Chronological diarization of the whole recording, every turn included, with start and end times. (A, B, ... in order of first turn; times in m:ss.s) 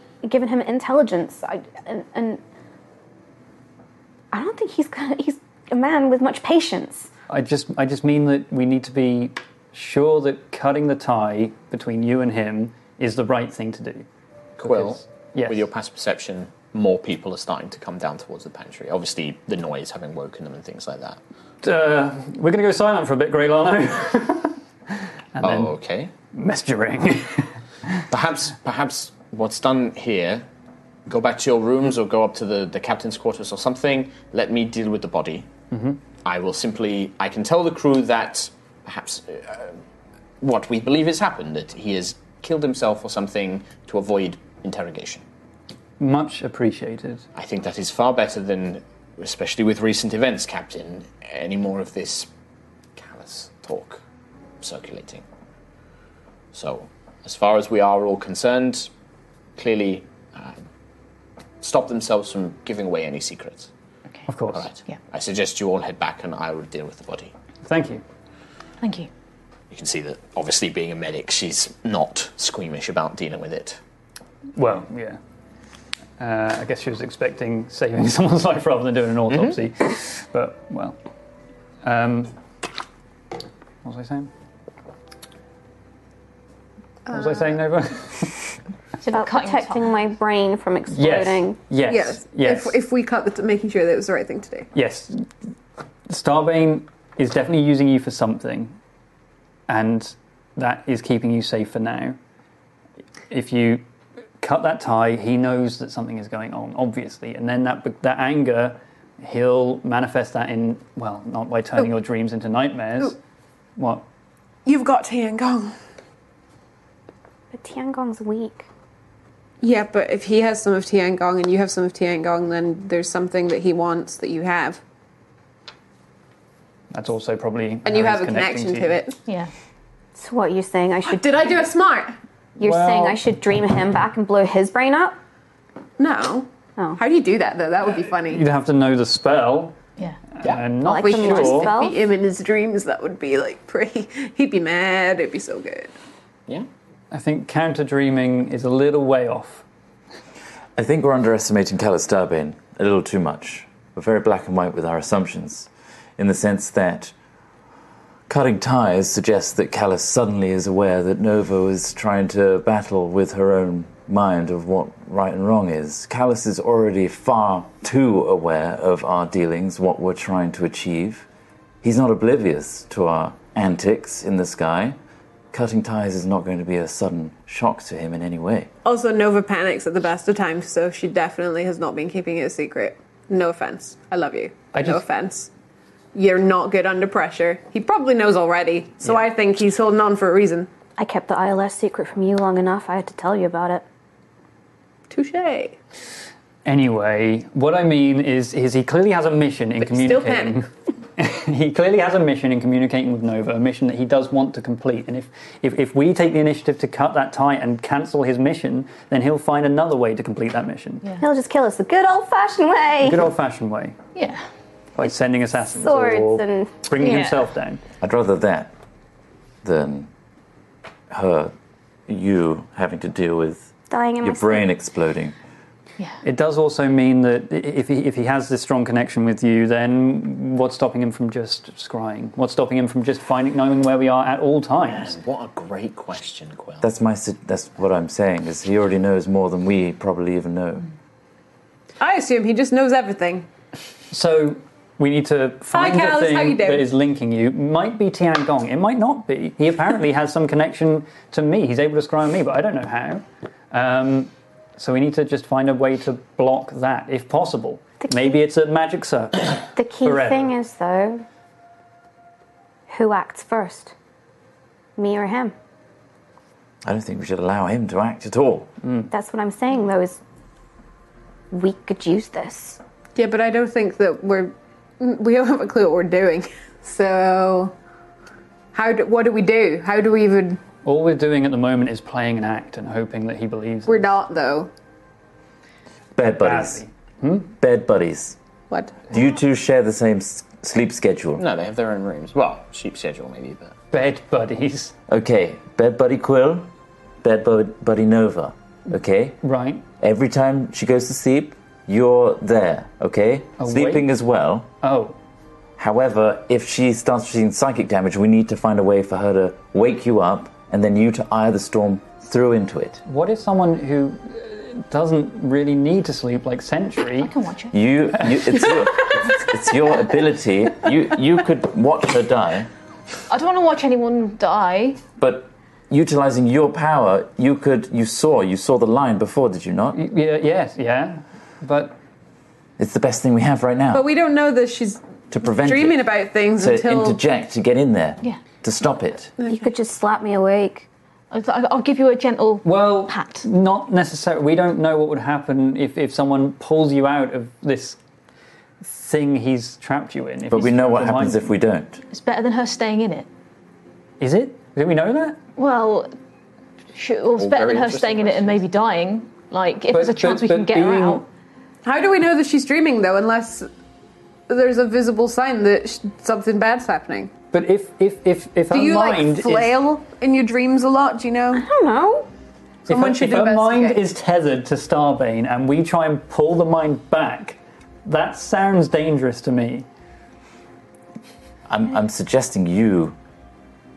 0:00.2-0:02.4 A
0:04.3-0:07.1 A
0:07.3-0:14.0 B
0:14.6-0:21.2 C
0:14.6-0:15.6 B
0:21.6-0:24.6 B
0:25.4-0:25.7 B
0:25.4-0:26.1 C
0:26.3-0:28.0 B
0:28.1-0:30.4 C
0:31.1-0:35.5 C
0:35.7-0:36.0 B
0:36.2-0:39.8 C
0:40.4-0:45.2 C
0:46.0-0:47.2 B
0:47.3-0:52.3 C
0:53.0-0:54.0 C
0:54.6-0:55.2 C
0:56.5-0:58.9 C
0:59.6-1:00.6 C
1:01.6-1:03.7 C
1:04.3-1:04.6 B
1:04.5-1:07.3 C
1:07.6-1:08.0 B
1:08.8-1:09.1 D
1:09.7-1:13.8 C
1:14.6-1:15.2 B
1:16.2-1:21.0 B
1:19.3-1:19.6 C
1:21.8-1:22.3 B
1:23.8-1:24.3 B
1:27.0-1:27.5 E
1:27.1-1:28.5 B
1:29.0-1:30.0 D
1:29.1-1:31.6 A
1:30.9-1:32.8 B
1:31.9-1:34.7 E
1:34.7-1:35.2 B
1:36.1-1:38.8 B
1:39.7-1:42.2 B
1:43.3-1:43.8 B
1:44.4-1:53.2 B
1:53.8-1:54.0 B
1:54.6-1:55.7 E
1:57.5-1:58.7 A
1:59.6-2:04.8 E
2:06.9-2:09.0 B
2:07.8-2:09.2 E
2:09.2-2:09.5 D
2:10.2-2:11.4 A
2:11.0-2:12.1 E
2:12.6-2:15.2 A
2:12.6-2:13.2 B
2:16.0-2:18.4 E
2:18.3-2:19.8 B
2:20.3-2:21.7 B
2:20.8-2:22.0 A
2:20.9-2:25.9 E
2:27.1-2:29.6 B
2:30.8-2:37.1 F
2:38.3-2:51.3 F
2:51.8-2:55.0 F
2:55.5-2:58.7 F
2:58.8-3:05.5 E
3:04.7-3:05.0 B
3:06.1-3:10.7 E
3:11.0-3:13.8 A
3:15.1-3:15.8 E
3:16.6-3:31.0 B
3:19.8-3:20.6 E
3:31.2-3:33.3 A
3:33.0-3:34.0 B
3:34.1-3:34.4 D
3:35.0-3:37.8 B
3:35.7-3:36.7 A
3:37.0-3:37.4 D
3:38.0-3:38.7 F
3:39.6-3:40.1 F
3:41.1-3:41.5 F
3:42.1-3:45.3 F
3:43.9-3:44.7 A
3:46.2-3:55.2 B
3:54.9-3:56.9 C
3:56.8-4:00.9 F
4:02.0-4:03.5 E
4:04.1-4:20.6 B
4:05.7-4:06.9 E
4:19.7-4:21.2 A
4:22.9-4:23.9 A
4:25.0-4:25.5 A
4:26.8-4:28.7 F
4:28.8-4:29.1 B
4:29.1-4:30.2 A
4:31.5-4:32.8 A
4:33.2-4:37.7 E
4:38.7-4:40.6 E
4:40.8-4:44.2 B
4:43.8-4:44.7 E
4:46.2-4:46.8 F
4:46.4-4:47.5 B
4:47.6-4:48.4 F
4:48.7-4:49.1 E
4:49.1-4:51.4 F
4:51.4-4:53.8 C
4:53.9-4:54.9 B
4:55.1-4:56.7 F
4:57.2-4:59.4 F
4:59.4-4:59.8 B
5:00.0-5:04.7 F
5:03.6-5:04.1 B
5:04.8-5:05.2 B
5:05.8-5:13.0 F
5:13.0-5:17.3 B
5:17.2-5:17.8 D
5:17.7-5:22.7 F
5:23.3-5:25.0 D
5:25.2-5:30.0 F
5:29.9-5:32.0 B
5:32.8-5:34.0 F
5:33.9-5:37.2 E
5:35.3-5:36.0 F
5:36.6-5:39.3 F
5:39.4-5:39.7 E
5:39.4-5:40.9 A
5:41.3-5:43.5 D
5:42.6-5:48.0 B
5:48.8-5:51.5 B
5:50.5-5:52.0 F
5:52.1-5:53.3 D
5:54.2-5:55.4 B
5:55.6-5:56.1 D
5:56.9-6:01.2 D
5:57.4-5:58.6 C
5:59.9-6:01.2 B
6:01.8-6:03.7 E
6:04.5-6:07.3 E
6:07.5-6:09.8 B
6:08.7-6:11.6 E
6:11.5-6:12.3 A
6:12.9-6:14.0 E
6:12.9-6:19.8 B
6:21.7-6:23.2 F